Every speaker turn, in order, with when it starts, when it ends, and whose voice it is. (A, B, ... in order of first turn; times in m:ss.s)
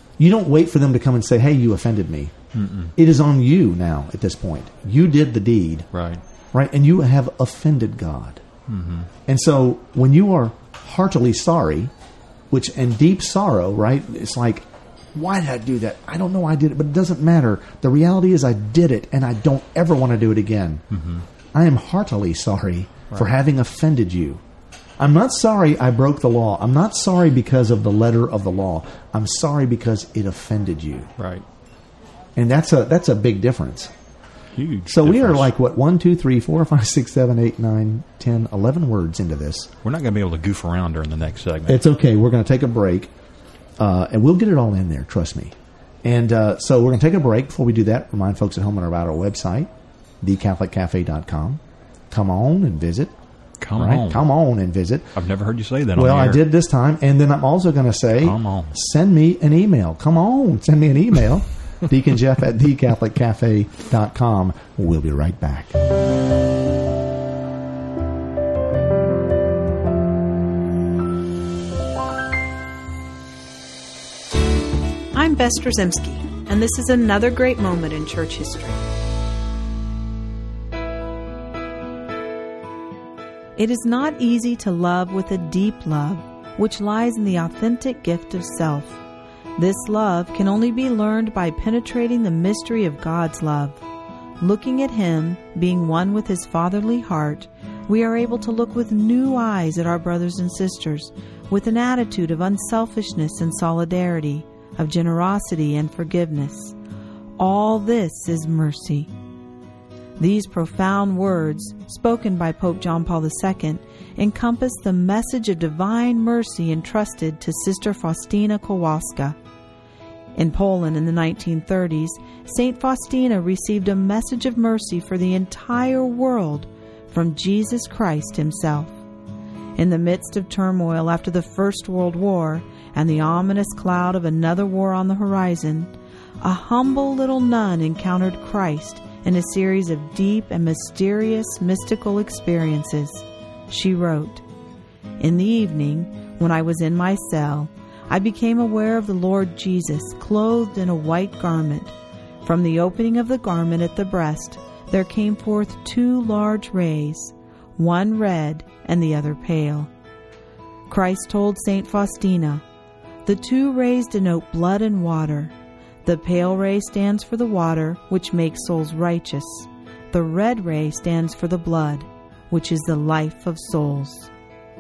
0:00.2-0:02.3 A
0:02.5-0:03.0 B
0:03.0-0:05.9 A
0:05.9-0:06.2 B
0:06.5-0:08.4 A
0:08.7-0:09.1 B
0:09.3-0:11.9 A
0:12.5-0:20.8 A
0:20.9-0:21.2 B
0:21.5-0:24.4 A
0:25.0-0:31.1 A
0:31.2-0:31.4 B
0:32.4-0:33.9 A
0:34.6-0:35.5 B
0:34.9-0:39.7 A
0:39.8-0:41.8 B
0:41.7-0:43.1 A
0:43.8-0:49.7 A
0:50.2-0:53.1 A
0:53.6-0:54.2 B
0:53.8-0:55.1 A
0:55.2-0:56.4 B
0:56.0-1:05.8 A
0:58.2-0:58.7 B
1:15.1-1:18.8 C
1:23.6-1:29.0 C
1:29.6-1:33.8 C
1:34.4-1:46.8 C
1:47.4-1:49.1 C
1:50.2-1:59.4 C
2:00.4-2:09.0 C
2:09.8-2:24.4 C
2:25.2-2:39.9 C
2:40.9-2:42.6 C
2:43.2-2:45.5 C
2:46.0-2:54.3 C